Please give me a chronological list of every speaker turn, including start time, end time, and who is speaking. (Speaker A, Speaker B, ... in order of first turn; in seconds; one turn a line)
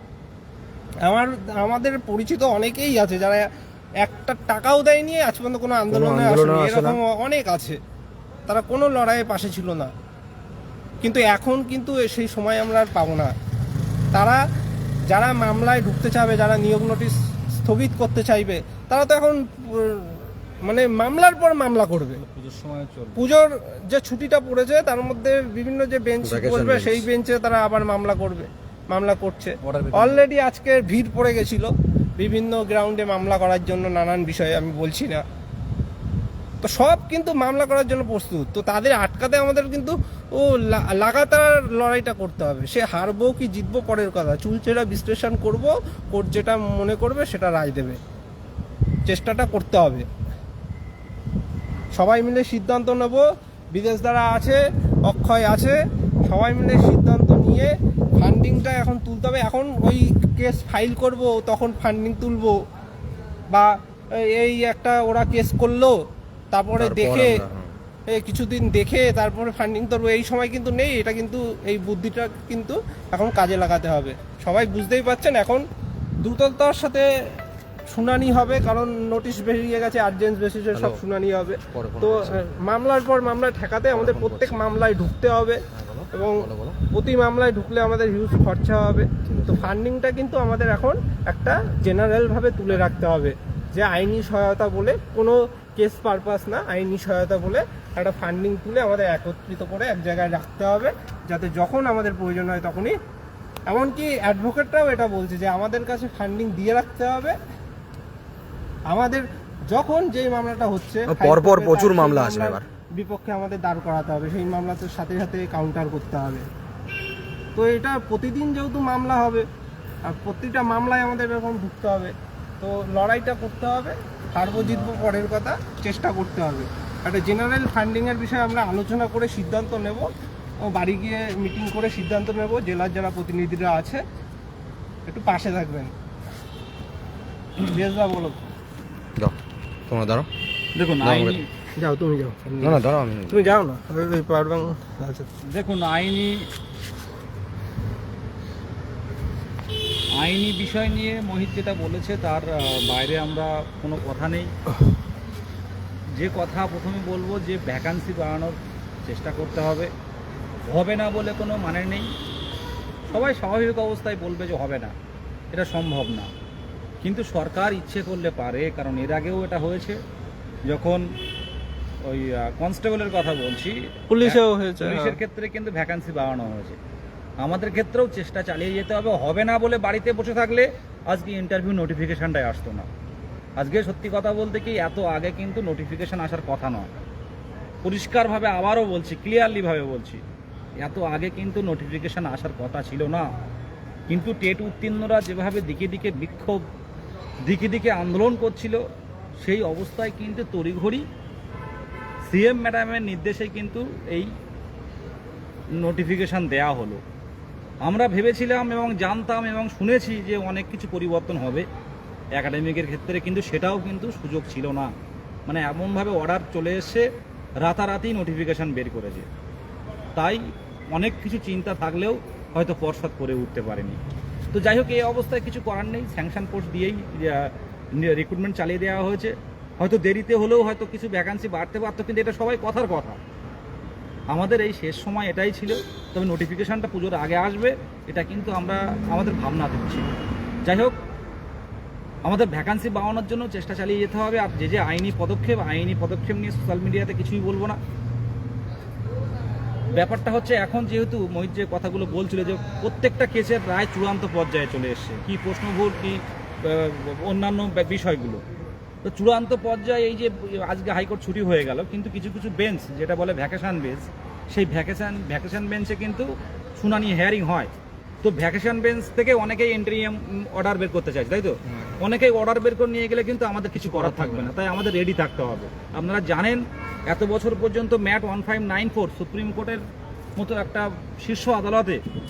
Speaker A: 1.1-3.5
Speaker A: 4.0-7.8
Speaker B: 5.9-7.0
Speaker A: 8.5-9.9
Speaker A: 11.0-13.3
Speaker A: 14.1-14.4
Speaker A: 15.1-22.2
Speaker C: 22.2-23.2
Speaker A: 23.2-35.2
Speaker B: 26.2-27.1
Speaker C: 29.6-30.3
Speaker A: 36.6-48.0
Speaker A: 49.1-50.1
Speaker A: 52.0-62.6
Speaker A: 63.5-66.0
Speaker A: 66.5-67.4
Speaker B: 66.8-67.8
Speaker A: 68.1-75.6
Speaker A: 76.2-77.1
Speaker A: 77.9-85.6
Speaker B: 80.8-81.0
Speaker B: 81.7-82.4
Speaker B: 83.9-84.6
Speaker B: 85.7-86.8
Speaker A: 86.1-103.0
Speaker B: 89.2-89.8
Speaker A: 103.7-107.4
Speaker A: 108.9-116.5
Speaker B: 111.1-112.6
Speaker A: 117.5-119.5
Speaker A: 120.0-134.0
Speaker B: 124.6-124.9
Speaker A: 135.1-135.9
Speaker A: 137.6-138.5
Speaker B: 139.9-140.3
Speaker C: 140.8-141.5
Speaker B: 141.0-141.4
Speaker A: 141.8-145.3
Speaker B: 142.6-143.5
Speaker C: 145.4-146.5
Speaker C: 150.2-154.5
Speaker C: 156.1-159.9
Speaker C: 160.7-162.1
Speaker C: 163.1-164.9
Speaker C: 165.5-166.3
Speaker C: 167.0-170.0
Speaker C: 170.7-171.0
Speaker C: 172.0-176.8
Speaker A: 174.1-175.2
Speaker C: 177.4-182.9
Speaker C: 183.6-186.9
Speaker C: 187.8-190.2
Speaker C: 190.8-193.3
Speaker C: 194.1-196.6
Speaker C: 197.4-198.8
Speaker C: 199.4-201.1
Speaker C: 202.3-204.3
Speaker C: 205.8-207.0
Speaker C: 207.8-211.7
Speaker C: 212.3-214.9
Speaker C: 215.5-217.1
Speaker C: 217.6-219.3
Speaker C: 220.2-220.4
Speaker C: 220.9-224.0
Speaker C: 224.5-233.2
Speaker C: 234.3-240.1
Speaker C: 240.7-241.0
Speaker C: 242.2-247.8
Speaker C: 249.9-258.4
Speaker C: 259.1-267.7
Speaker C: 268.2-279.8
Speaker B: 273.8-274.5
Speaker C: 280.4-282.0